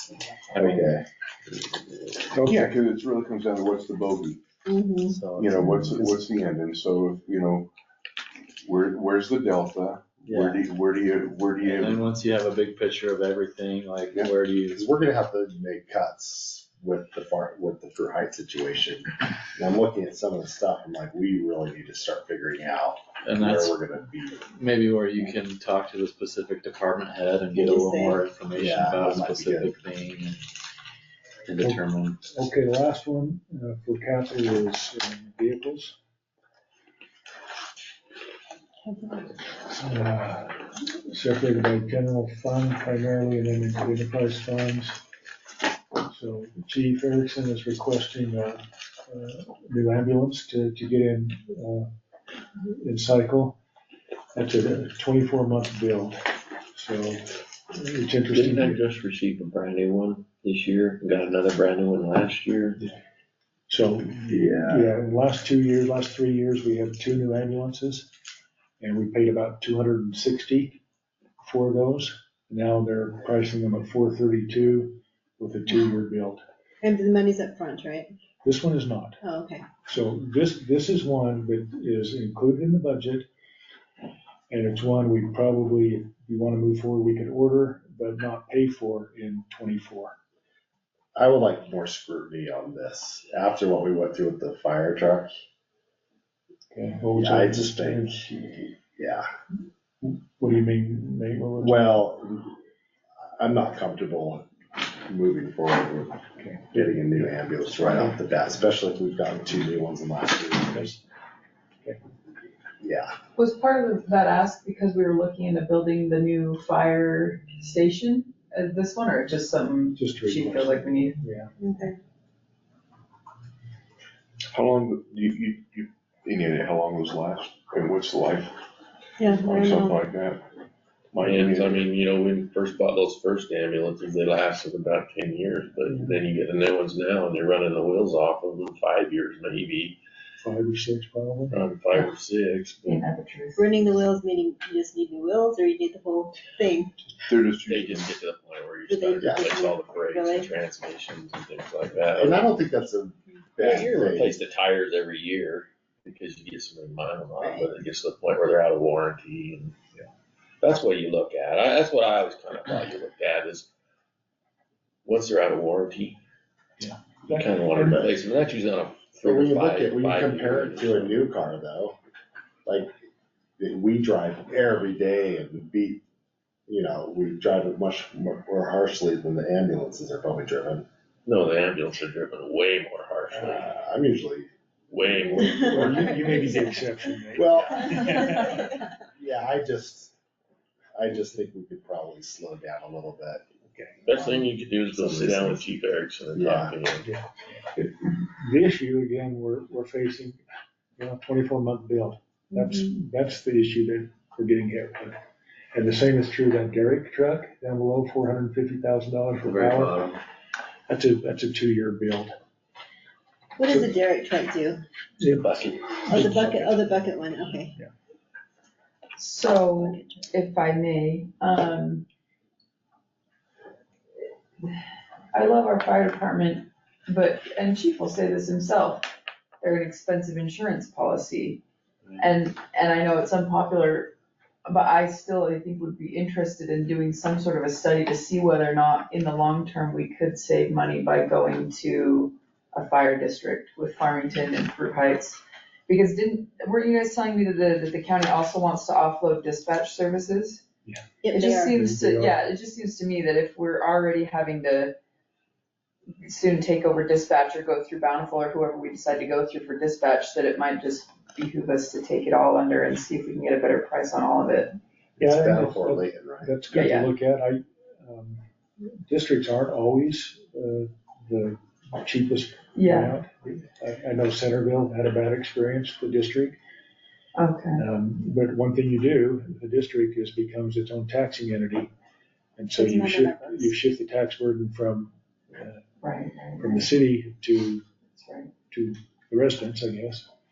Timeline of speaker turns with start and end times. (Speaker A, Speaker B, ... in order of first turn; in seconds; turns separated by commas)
Speaker A: 0.5-0.9, Speaker B: 0.6-1.0, Speaker C: 2.3-2.6, Speaker D: 2.5-4.4, Speaker E: 4.7-5.2, Speaker D: 5.1-7.7, Speaker A: 5.3-6.1, Speaker D: 8.7-12.1, Speaker A: 10.3-10.6, Speaker A: 11.6-14.9, Speaker B: 14.7-24.4, Speaker A: 23.2-23.8, Speaker A: 24.5-30.4, Speaker E: 27.5-28.2, Speaker B: 28.6-29.7, Speaker A: 31.5-32.2, Speaker C: 31.5-36.0, Speaker E: 38.8-39.3, Speaker C: 39.7-45.0, Speaker C: 46.0-51.9, Speaker C: 52.6-53.6, Speaker C: 54.4-56.2, Speaker C: 56.7-58.8, Speaker F: 58.3-62.8, Speaker C: 63.7-68.1, Speaker B: 64.3-64.9, Speaker C: 68.8-70.8, Speaker C: 71.4-76.4, Speaker E: 76.8-78.1, Speaker C: 78.4-79.2, Speaker E: 79.2-79.6, Speaker C: 79.8-83.2, Speaker C: 84.5-90.1, Speaker B: 91.2-95.3, Speaker C: 96.7-98.7, Speaker B: 97.2-98.3, Speaker B: 99.0-99.3, Speaker C: 100.0-102.0, Speaker B: 101.6-102.6, Speaker B: 103.4-104.5, Speaker B: 105.1-110.9, Speaker C: 106.4-107.2, Speaker C: 110.7-111.0, Speaker B: 112.8-113.1, Speaker G: 113.4-121.2, Speaker C: 120.0-121.5, Speaker E: 121.6-122.0, Speaker D: 124.5-128.6, Speaker E: 129.2-130.0, Speaker D: 129.3-130.4, Speaker D: 131.1-131.9, Speaker F: 131.2-140.0, Speaker C: 135.9-136.2, Speaker C: 140.4-141.6, Speaker F: 141.5-143.0, Speaker G: 142.9-143.7, Speaker E: 143.6-146.9, Speaker D: 147.3-148.2, Speaker F: 147.7-152.6, Speaker E: 148.9-150.5, Speaker B: 149.2-149.5, Speaker B: 152.1-154.4, Speaker F: 153.6-159.8, Speaker E: 157.4-157.7, Speaker F: 160.6-163.7, Speaker F: 165.1-166.2, Speaker C: 166.8-168.2, Speaker F: 167.3-171.2, Speaker B: 169.2-172.0, Speaker B: 172.7-172.9, Speaker B: 173.6-176.0, Speaker B: 176.7-180.9, Speaker F: 181.2-183.7, Speaker B: 183.3-184.5, Speaker F: 184.9-186.7, Speaker E: 185.4-185.7, Speaker C: 185.4-188.8, Speaker B: 187.3-188.0, Speaker B: 189.2-190.2, Speaker B: 190.9-193.4, Speaker C: 193.7-194.0, Speaker F: 194.1-197.1, Speaker B: 194.9-195.6, Speaker B: 196.3-196.7, Speaker C: 197.0-200.4, Speaker C: 201.0-205.2, Speaker C: 205.7-210.2, Speaker A: 209.4-210.2, Speaker C: 210.9-212.3, Speaker E: 213.6-214.8, Speaker C: 215.2-217.1, Speaker F: 215.2-216.3, Speaker E: 216.1-217.7, Speaker G: 219.2-222.1, Speaker E: 219.8-220.0, Speaker G: 225.3-229.1, Speaker G: 229.6-231.6, Speaker G: 232.2-234.1, Speaker G: 234.7-250.6, Speaker E: 251.2-251.7, Speaker G: 251.3-254.9, Speaker C: 251.7-252.4, Speaker G: 256.2-264.7, Speaker B: 265.2-266.6, Speaker C: 265.2-268.4, Speaker G: 266.7-267.1, Speaker C: 269.1-276.6, Speaker G: 272.8-273.1, Speaker G: 277.4-277.8, Speaker C: 277.8-281.9, Speaker C: 282.6-285.8, Speaker E: 282.8-283.7, Speaker G: 286.0-286.9, Speaker C: 286.6-287.8, Speaker G: 288.1-288.5, Speaker C: 288.7-290.3